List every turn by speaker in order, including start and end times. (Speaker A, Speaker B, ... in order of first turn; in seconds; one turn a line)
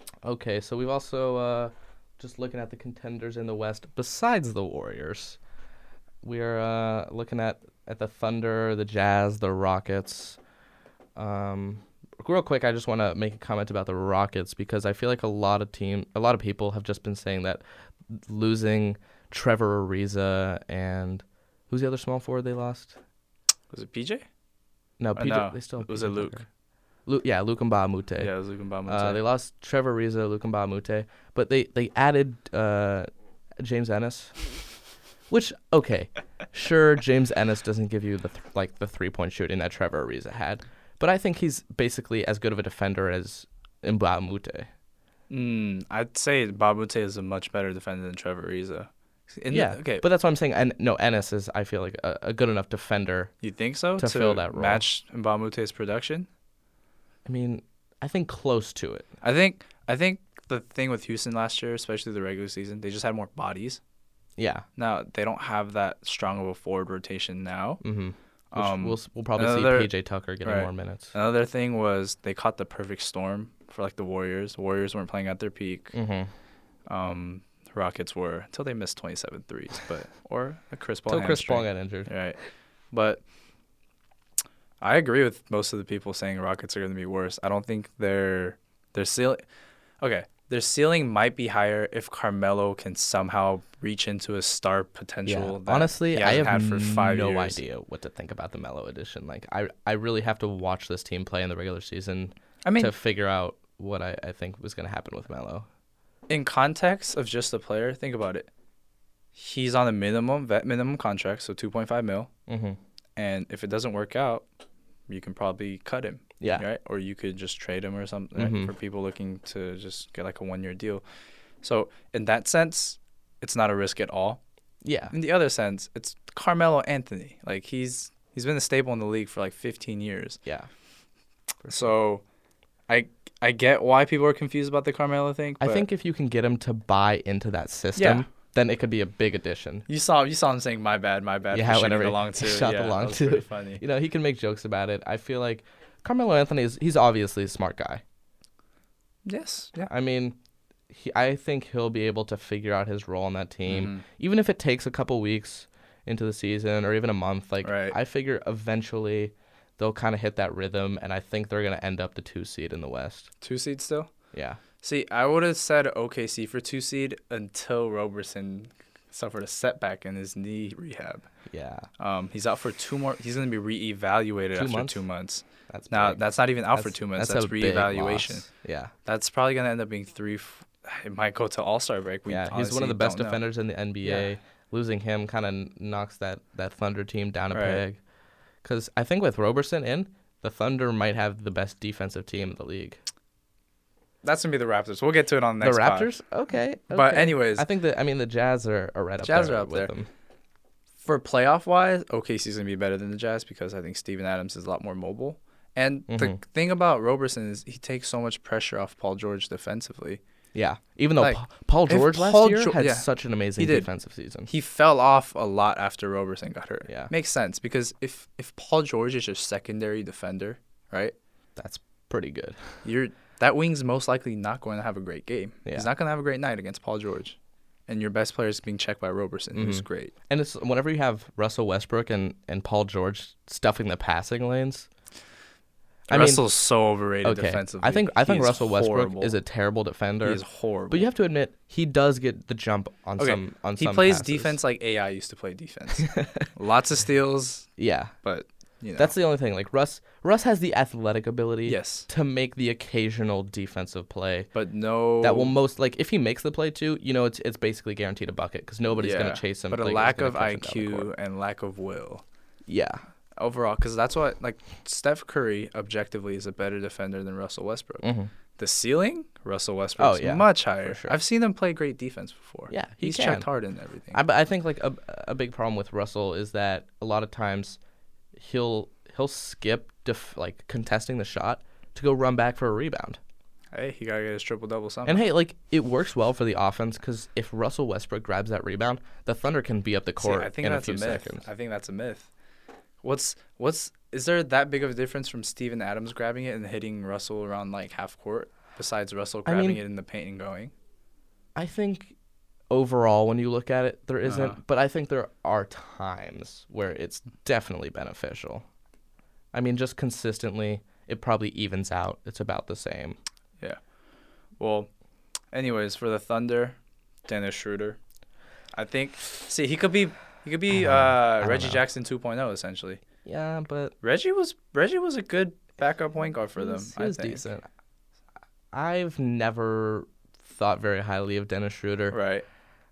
Speaker A: 0.2-5.4
Speaker A: 6.2-10.4
Speaker A: 11.2-23.0
Speaker B: 23.7-24.2
Speaker A: 25.0-26.4
Speaker B: 25.1-26.4
Speaker A: 27.1-28.3
Speaker B: 28.2-29.2
Speaker A: 28.9-34.4
Speaker A: 35.3-44.7
Speaker B: 45.3-50.0
Speaker A: 49.5-53.3
Speaker B: 53.4-56.3
Speaker A: 54.0-54.8
Speaker A: 57.2-59.1
Speaker B: 59.2-63.8
Speaker A: 64.4-64.6
Speaker B: 64.8-67.8
Speaker A: 67.8-71.1
Speaker B: 68.5-69.9
Speaker B: 70.4-76.0
Speaker A: 75.9-76.3
Speaker B: 76.9-82.4
Speaker A: 81.1-82.1
Speaker B: 82.9-83.2
Speaker B: 84.8-89.4
Speaker B: 90.0-97.6
Speaker A: 95.2-105.7
Speaker B: 102.6-102.9
Speaker B: 106.3-108.5
Speaker B: 109.3-112.3
Speaker A: 112.5-112.8
Speaker B: 113.2-114.5
Speaker B: 115.1-121.0
Speaker A: 118.3-118.7
Speaker B: 121.6-124.4
Speaker A: 124.8-125.1
Speaker B: 125.1-130.4
Speaker B: 131.7-132.2
Speaker B: 132.9-135.8
Speaker A: 135.6-139.8
Speaker B: 137.9-138.3
Speaker B: 139.9-143.8
Speaker A: 141.5-148.0
Speaker B: 149.2-149.9
Speaker A: 149.9-150.4
Speaker A: 150.9-163.3
Speaker B: 153.7-154.0
Speaker B: 157.6-158.0
Speaker B: 163.4-164.1
Speaker A: 164.3-164.6
Speaker B: 164.8-171.3
Speaker A: 171.5-171.9
Speaker B: 172.0-178.5
Speaker A: 174.5-175.0
Speaker A: 175.7-178.9
Speaker B: 179.0-183.4
Speaker A: 182.3-188.0
Speaker B: 184.0-184.3
Speaker B: 187.5-187.8
Speaker A: 188.6-193.0
Speaker B: 194.2-196.1
Speaker A: 195.6-200.1
Speaker B: 196.9-197.7
Speaker B: 199.2-199.9
Speaker B: 201.0-210.2
Speaker A: 206.1-206.4
Speaker A: 210.5-214.5
Speaker B: 211.2-213.9
Speaker B: 214.5-221.1
Speaker A: 216.8-217.1
Speaker A: 221.6-222.8
Speaker B: 222.8-230.1
Speaker A: 229.5-234.9
Speaker A: 236.1-236.4
Speaker B: 236.1-239.3
Speaker A: 237.2-244.6
Speaker B: 240.2-241.1
Speaker B: 243.2-247.7
Speaker A: 246.0-246.5
Speaker A: 247.8-248.1
Speaker B: 248.2-249.1
Speaker A: 249.0-254.5
Speaker B: 251.7-252.1
Speaker B: 254.5-255.5
Speaker A: 255.2-261.1
Speaker B: 259.0-262.2
Speaker A: 262.7-263.0
Speaker B: 263.4-274.2
Speaker A: 268.0-268.3
Speaker A: 270.0-271.1
Speaker A: 272.7-273.4
Speaker A: 274.1-277.8
Speaker A: 278.4-283.2
Speaker B: 283.7-285.2
Speaker A: 285.1-291.4
Speaker B: 290.2-292.3
Speaker B: 293.0-300.7
Speaker A: 299.4-299.8
Speaker A: 301.5-302.1
Speaker A: 302.7-308.6
Speaker B: 304.2-304.6
Speaker A: 309.5-313.2
Speaker B: 314.6-314.9
Speaker B: 315.5-318.0
Speaker B: 318.7-323.0
Speaker A: 320.8-321.8
Speaker A: 323.2-323.9
Speaker B: 324.0-327.4
Speaker A: 326.6-327.7
Speaker A: 328.7-332.2
Speaker B: 332.1-332.4